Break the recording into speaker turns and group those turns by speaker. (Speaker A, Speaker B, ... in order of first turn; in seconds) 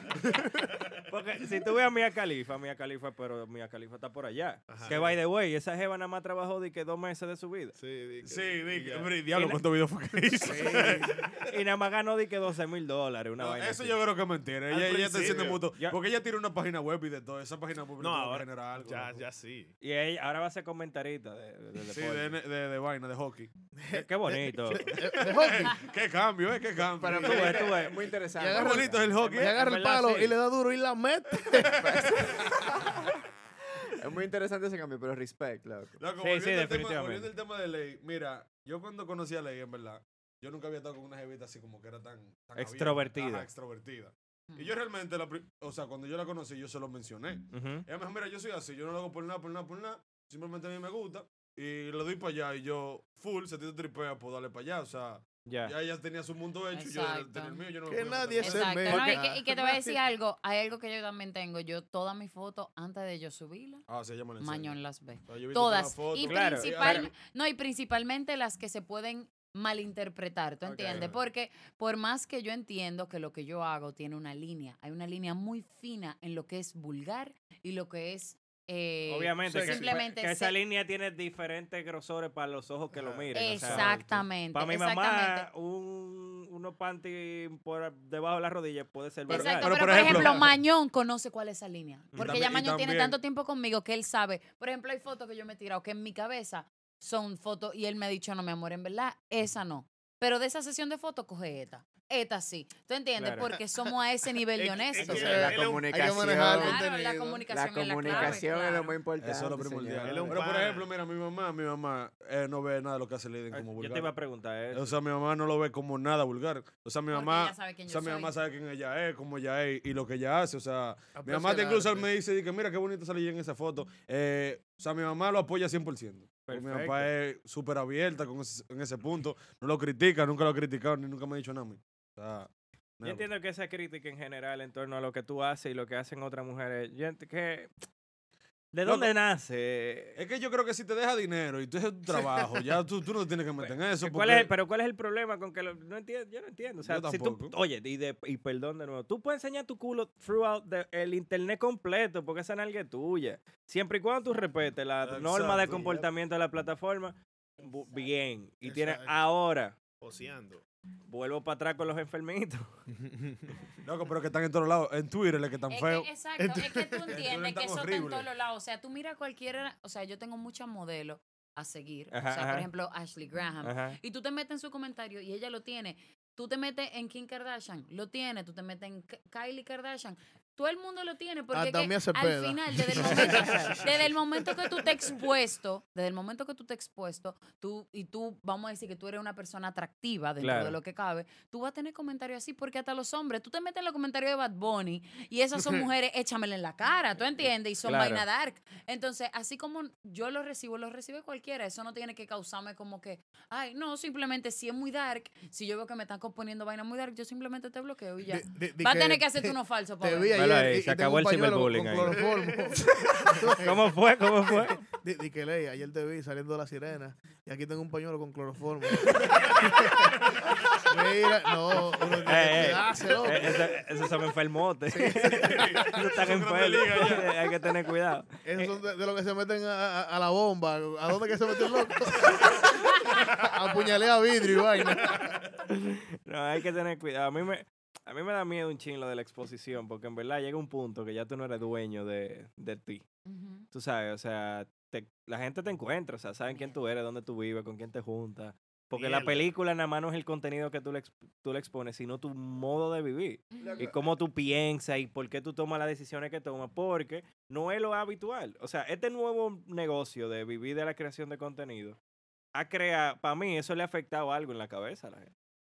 Speaker A: 1.1-7.7, 9.3-9.6, 11.4-14.0, 15.4-16.0, 19.8-22.4, 23.9-24.9, 27.2-28.0, 29.2-30.4, 36.2-37.3, 42.5-43.5, 47.5-47.8, 55.5-55.7, 66.2-67.1, 79.1-84.0, 84.5-90.4, 92.1-92.4, 103.2-103.5, 108.0-108.4, 113.5-115.0, 126.5-127.1, 133.0-137.7, 138.7-140.2, 143.6-159.7, 161.1-162.7, 172.1-172.7, 173.6-174.0, 190.4-190.8, 197.8-198.2, 210.3-212.2, 213.2-214.8, 222.2-228.7, 235.7-243.0, 243.7-262.0, 262.5-265.3
Speaker B: 4.7-5.0, 7.8-9.1, 10.4-11.2, 14.7-15.6, 18.0-19.7, 104.6-105.9, 110.0-110.9, 158.6-159.2, 160.0-160.6, 163.0-163.4
Speaker C: 4.8-5.2, 8.2-11.4, 13.4-19.2, 21.8-23.5, 24.8-27.9, 28.4-29.5, 31.6-32.5, 36.0-59.0, 63.9-67.1, 70.7-71.2, 79.5-79.8, 83.0-84.2, 89.3-90.5, 92.2-93.2, 109.2-114.1, 114.7-133.3, 138.8-139.1, 140.2-144.5, 146.8-147.5, 155.0-156.1, 163.8-166.1, 167.1-168.3, 220.3-220.8, 223.2-223.6, 225.2-227.3, 232.3-232.5, 233.2-233.5
Speaker D: 23.8-25.8, 28.4-32.3, 57.9-60.0, 105.0-107.4, 121.1-122.1, 181.5-184.1, 208.2-213.9, 214.8-220.2, 220.8-223.6, 224.9-226.0, 228.4-232.7, 233.4-235.3
Speaker E: 27.0-29.1, 34.0-36.0, 105.0-106.8, 107.5-110.3
Speaker F: 56.7-57.6, 58.4-63.8, 64.4-80.5, 83.3-85.5, 89.3-105.5, 106.3-109.0, 117.1-118.3, 157.6-158.1, 165.7-210.3, 243.2-243.7, 246.5-246.8, 253.5-253.9